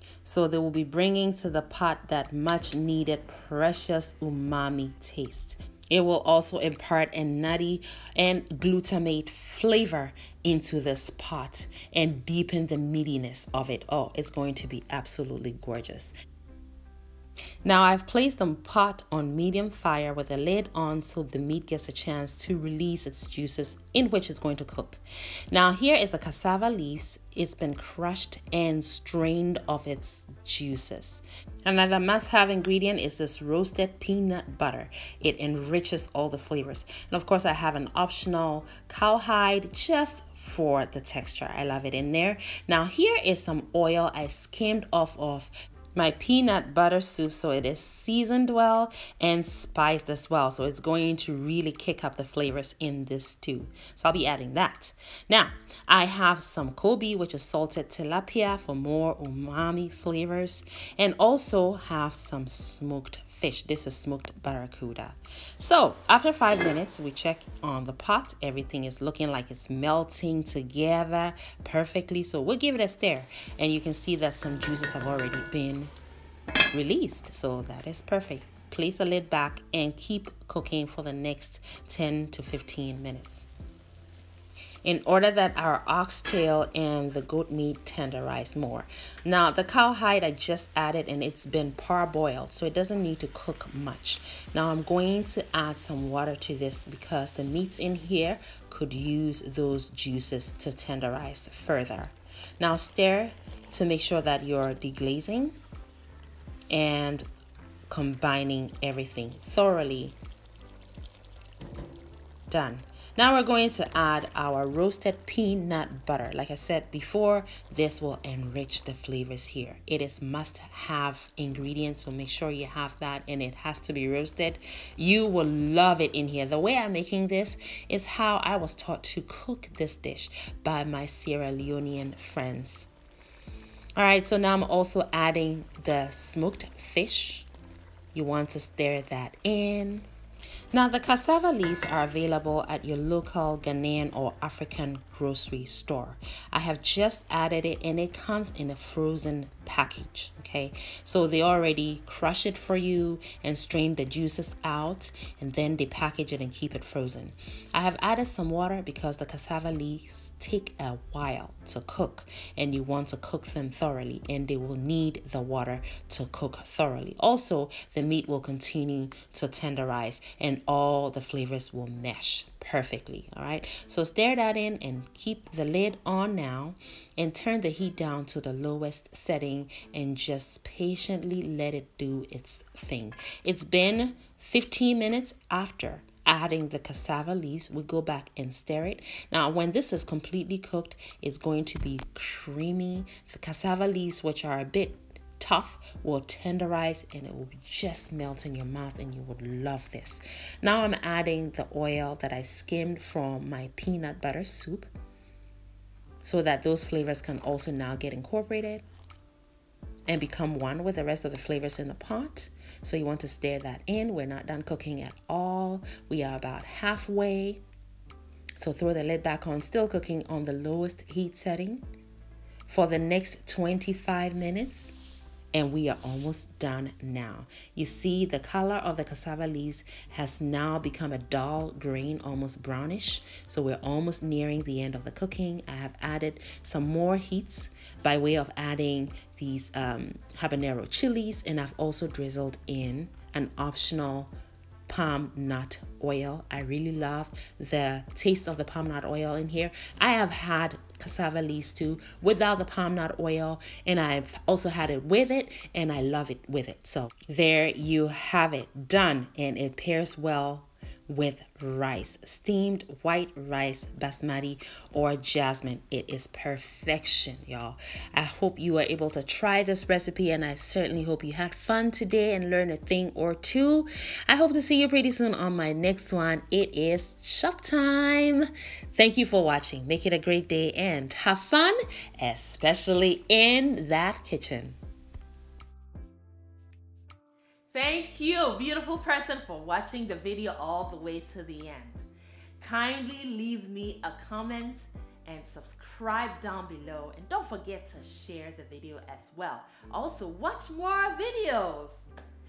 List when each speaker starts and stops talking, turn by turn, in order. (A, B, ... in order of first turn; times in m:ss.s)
0:00.2-0:16.1 A
0:17.6-1:15.9 A
1:16.7-1:23.5 A
1:24.8-1:45.6 A
1:46.7-1:47.2 A
1:47.9-1:50.2 A
1:52.5-2:12.9 A
2:14.0-2:17.5 A
2:18.1-2:20.1 A
2:20.7-3:24.9 A
3:26.2-3:28.8 A
3:30.1-3:37.6 A
3:38.6-3:41.8 A
3:42.7-3:44.9 A
3:45.5-4:04.3 A
4:04.9-4:44.8 A
4:47.7-4:52.0 A
4:52.6-5:02.0 A